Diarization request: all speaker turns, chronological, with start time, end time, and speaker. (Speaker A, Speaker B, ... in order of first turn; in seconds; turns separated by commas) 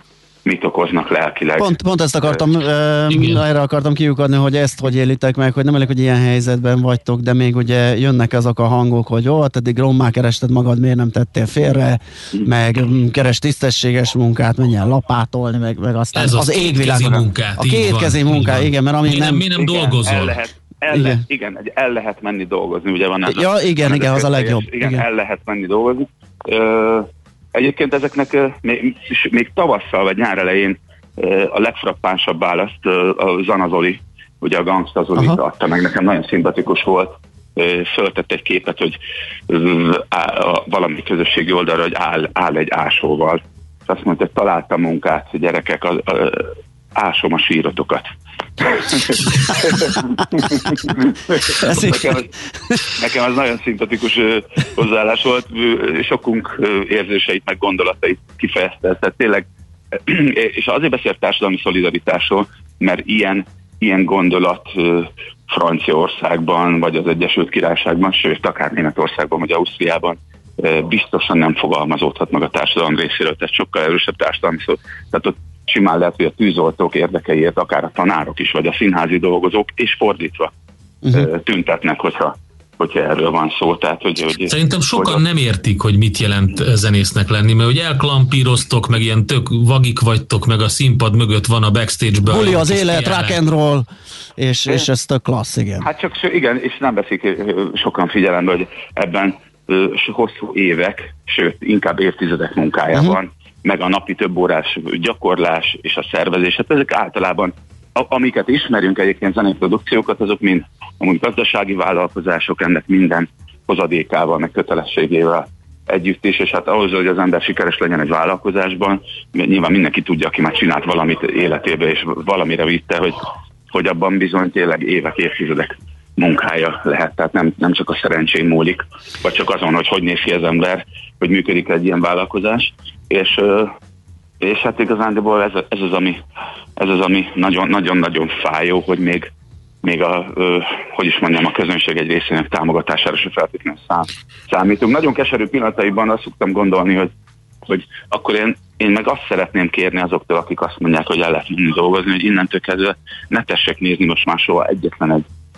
Speaker A: 0.5-1.7, Speaker B: 1.6-19.5, Speaker C: 3.1-3.4, Speaker C: 16.2-20.4, Speaker A: 19.6-39.0, Speaker B: 20.9-21.2, Speaker B: 23.2-25.1, Speaker A: 39.5-48.0, Speaker A: 48.6-52.3, Speaker B: 51.6-52.2, Speaker A: 53.0-80.5, Speaker A: 81.1-85.2, Speaker C: 84.5-93.4, Speaker B: 92.2-93.9, Speaker B: 94.4-95.9, Speaker A: 95.8-133.7, Speaker A: 134.4-136.2, Speaker A: 136.8-139.3, Speaker A: 139.8-147.1, Speaker A: 147.7-155.2